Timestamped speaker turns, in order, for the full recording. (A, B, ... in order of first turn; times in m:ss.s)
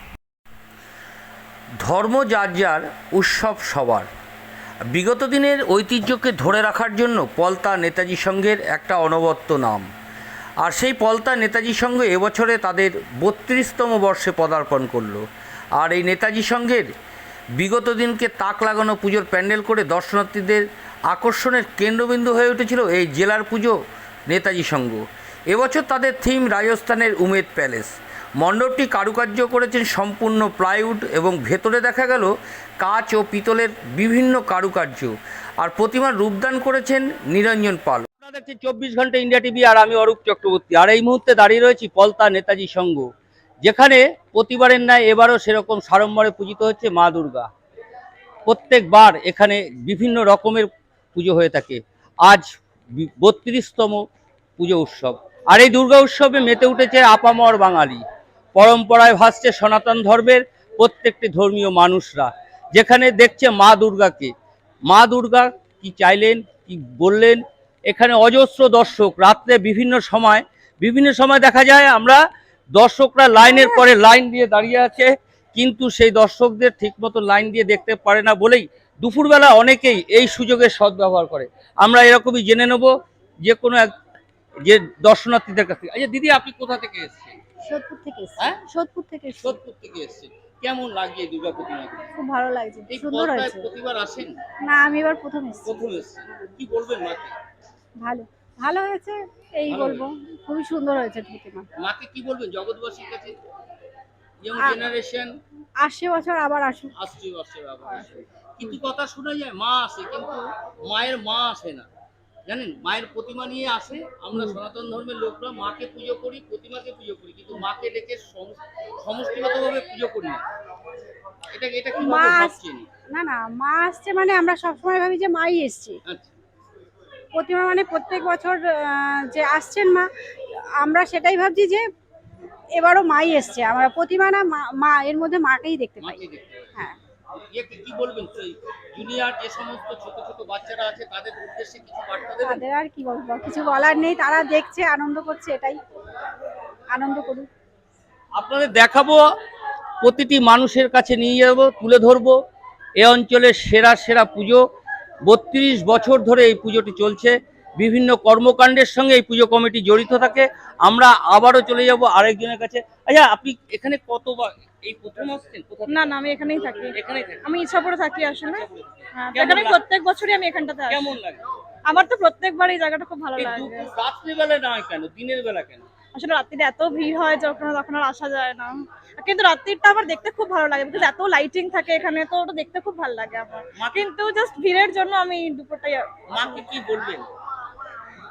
0:01.8-0:04.1 A
0:04.9-0:09.9 A
0:10.6-0:15.2 A
0:15.8-0:16.9 A
0:17.6-0:23.8 A
0:24.3-0:43.1 A
0:43.6-0:47.5 A
0:48.5-0:54.0 A
0:54.6-0:58.0 A
0:58.6-1:04.3 A
1:04.9-1:12.2 A
1:12.8-1:22.9 A
1:13.4-1:13.8 B
1:23.4-1:23.9 A
1:24.6-1:27.4 A
1:27.7-1:29.6 B
1:29.4-1:32.0 A
1:32.2-1:33.6 B
1:32.9-1:34.3 A
1:34.7-1:35.8 B
1:35.6-1:37.3 A
1:38.0-1:41.7 B
1:39.7-1:40.0 A
1:41.8-1:43.3 A
1:44.4-1:45.3 A
1:45.8-1:47.1 B
1:47.0-1:51.9 A
1:52.5-2:00.4 A
2:01.5-2:02.9 A
2:02.0-2:02.6 B
2:03.1-2:06.0 B
2:06.1-2:06.3 A
2:07.3-2:10.1 B
2:10.8-2:11.8 B
2:12.8-2:17.0 B
2:16.0-2:16.8 A
2:17.5-2:22.6 A
2:22.4-2:25.8 B
2:27.0-2:27.5 B
2:28.4-2:29.2 A
2:30.0-2:32.4 A
2:33.0-2:34.6 A
2:35.3-2:46.2 A
2:45.9-2:48.6 C
2:46.9-2:47.6 A
2:48.4-2:49.8 A
2:49.2-2:51.2 C
2:50.9-2:51.4 A
2:51.9-2:53.9 C
2:53.4-2:55.9 A
2:56.2-3:06.7 C
3:03.8-3:04.1 A
3:06.3-3:07.3 A